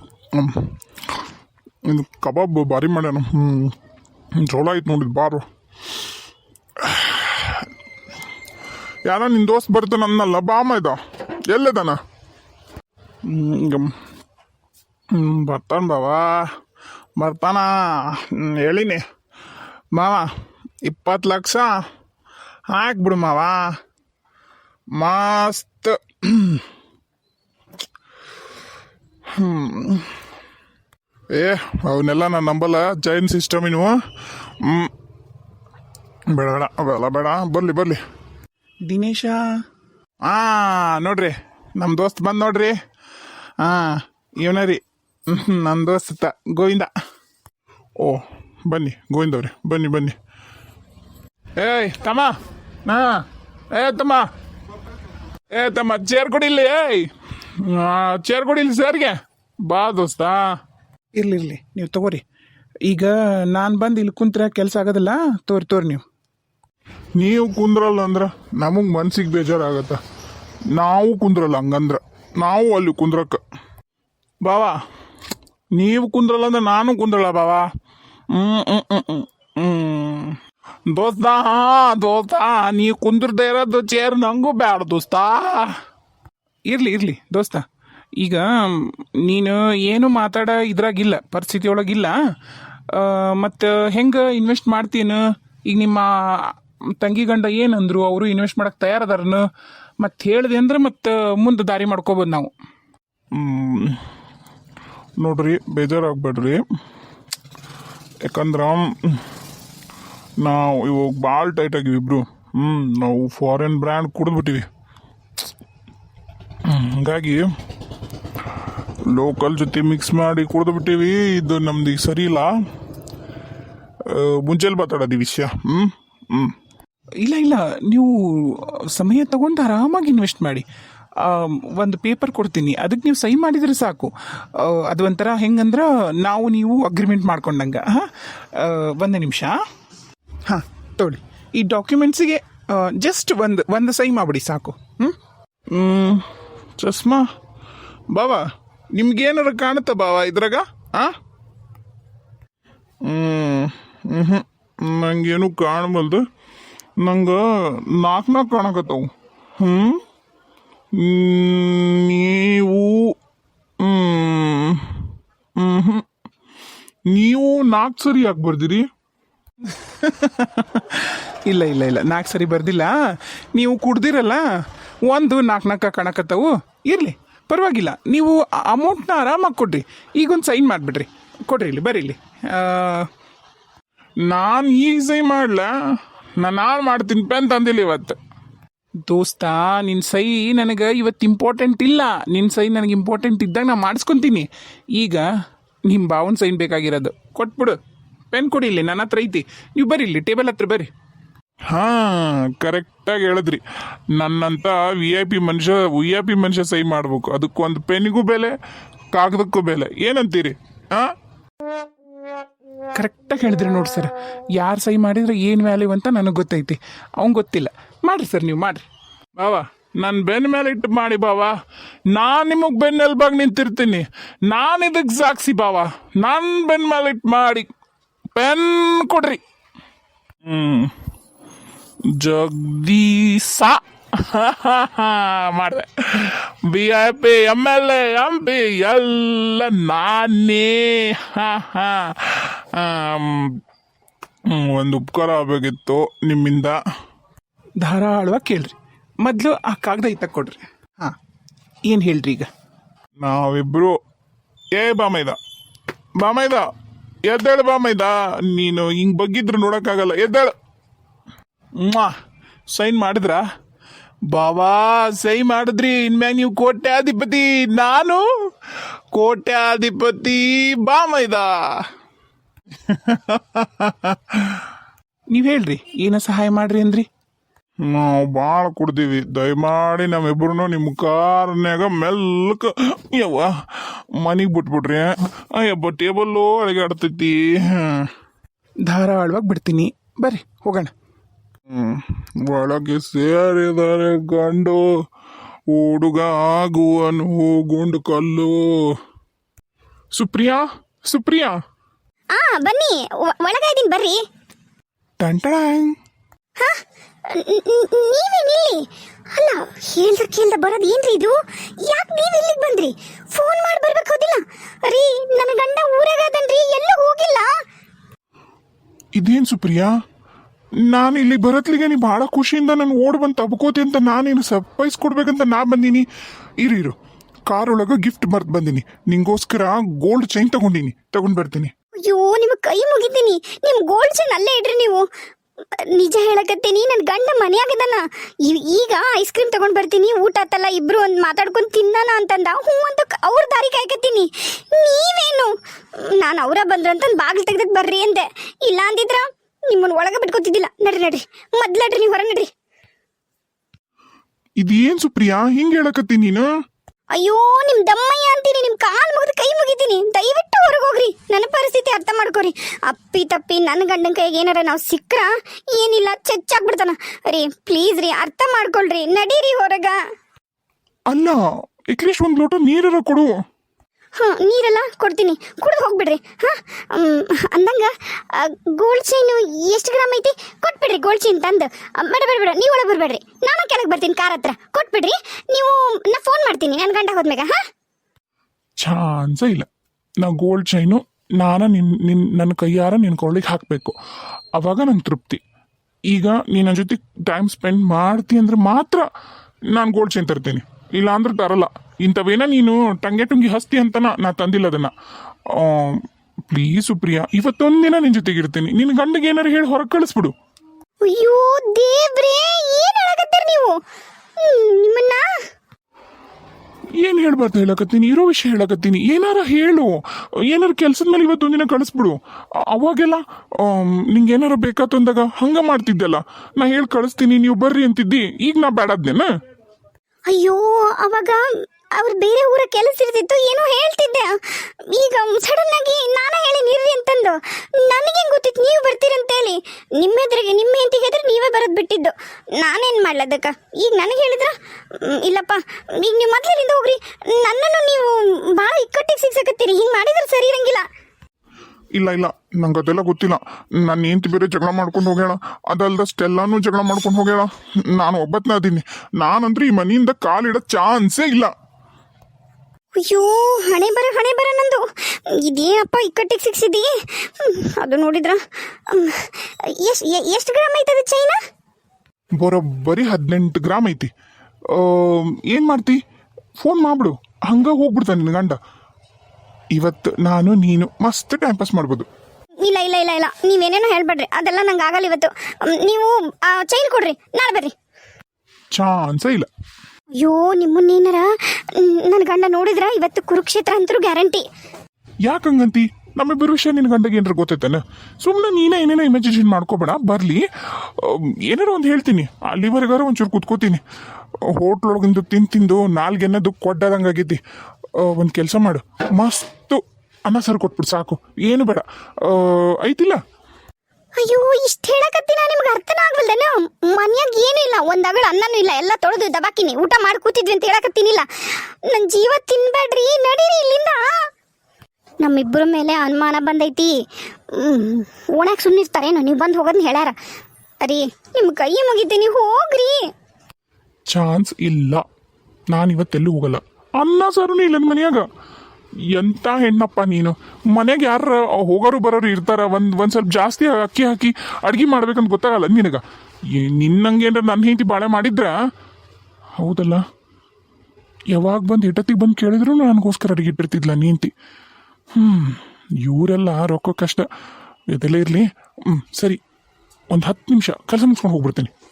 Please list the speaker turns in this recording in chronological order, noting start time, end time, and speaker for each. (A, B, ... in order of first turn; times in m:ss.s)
0:00.3-0:00.7 A
0:01.9-0:03.8 A
0:04.4-0:05.4 A
0:06.8-0:07.7 A
0:09.1-0:12.0 A
0:13.3-0:13.9 A
0:15.1-0:16.5 A
0:17.2-0:19.0 A
0:20.0-0:20.3 A
0:20.8-0:21.7 A
0:22.7-0:23.6 A
0:25.0-0:26.6 A
0:29.4-0:30.1 A
0:31.3-0:34.0 A
0:34.6-0:34.9 A
0:36.3-0:38.0 A
0:38.9-0:39.4 B
0:40.3-0:42.7 A
0:44.5-0:44.7 A
0:45.3-0:46.9 B
0:46.0-0:46.8 A
0:48.0-0:50.2 A
0:51.6-0:52.3 A
0:52.9-0:54.3 A
0:55.5-1:00.5 A
1:01.2-1:02.2 B
1:02.9-1:06.0 B
1:07.2-1:10.0 A
1:10.8-1:13.4 A
1:14.4-1:14.8 A
1:15.8-1:17.7 A
1:18.3-1:20.4 A
1:20.9-1:25.7 A
1:26.7-1:27.6 B
1:28.2-1:32.2 B
1:32.9-1:39.5 B
1:40.0-1:42.5 B
1:43.3-1:44.0 A
1:45.2-1:46.6 A
1:48.2-1:49.2 A
1:50.4-1:54.7 A
1:56.6-1:57.5 A
1:59.1-2:02.5 A
2:04.1-2:06.6 A
2:07.2-2:10.6 B
2:11.2-2:19.6 B
2:20.5-2:25.1 B
2:25.7-2:26.2 A
2:26.8-2:27.3 A
2:28.1-2:31.1 A
2:33.0-2:36.2 A
2:37.0-2:40.0 A
2:41.0-2:43.2 A
2:43.8-2:45.0 A
2:45.6-2:46.0 A
2:47.1-2:48.9 A
2:50.8-2:53.0 B
2:53.5-2:54.5 B
2:55.1-3:03.1 B
3:04.3-3:05.7 A
3:06.4-3:08.2 A
3:09.1-3:15.3 B
3:15.9-3:17.8 B
3:18.3-3:20.9 B
3:21.7-3:23.6 A
3:24.1-3:28.6 A
3:29.1-3:31.1 A
3:33.0-3:38.8 B
3:39.4-3:41.6 A
3:42.1-3:47.7 A
3:48.4-3:49.4 A
3:50.5-3:50.9 A
3:52.2-4:03.6 A
4:04.5-4:06.8 A
4:07.8-4:11.1 B
4:11.9-4:12.5 B
4:13.2-4:14.0 A
4:14.7-4:15.4 A
4:16.2-4:16.6 A
4:17.3-4:20.5 A
4:21.8-4:22.1 A
4:22.7-4:23.4 A
4:24.3-4:28.2 A
4:29.1-4:31.6 A
4:32.9-4:34.6 A
4:35.3-4:37.1 B
4:37.8-4:48.1 A
4:48.9-4:50.9 B
4:51.7-4:54.9 A
4:55.7-4:58.7 A
5:00.1-5:01.6 A
5:02.3-5:04.2 C
5:05.2-5:06.0 A
5:06.6-5:17.5 C
5:19.2-5:19.9 A
5:20.9-5:26.1 A
5:26.6-5:27.0 A
5:27.5-5:31.7 A
5:32.0-5:35.0 C
5:35.8-5:52.5 C
5:54.6-5:56.5 A
5:57.2-6:10.0 C
6:11.1-6:13.3 A
6:14.2-6:27.6 C
6:28.8-6:29.7 A
6:30.2-6:34.0 A
6:34.6-6:35.4 A
6:36.1-6:39.1 A
6:39.7-6:44.9 A
6:45.6-6:50.3 A
6:51.0-6:53.8 C
6:54.4-6:55.2 C
6:57.0-7:09.3 A
7:10.3-7:11.4 C
7:12.0-7:30.8 C
7:32.0-7:41.5 A
7:43.0-7:51.4 C
7:52.4-7:54.1 A
7:54.7-7:56.0 A
7:56.6-7:58.6 A
7:59.7-8:02.1 A
8:02.6-8:07.7 C
8:08.8-8:09.5 A
8:10.2-8:14.4 C
8:15.2-8:23.8 A
8:24.5-8:27.4 A
8:28.0-8:33.2 A
8:34.2-8:44.2 C
8:45.2-8:46.9 C
8:47.5-8:50.2 C
8:50.8-8:53.0 C
8:54.1-8:55.0 A
8:55.7-8:58.3 A
8:59.1-9:08.6 A
9:09.6-9:10.0 A
9:11.3-9:14.3 A
9:15.2-9:17.3 A
9:17.9-9:19.4 A
9:20.1-9:21.7 A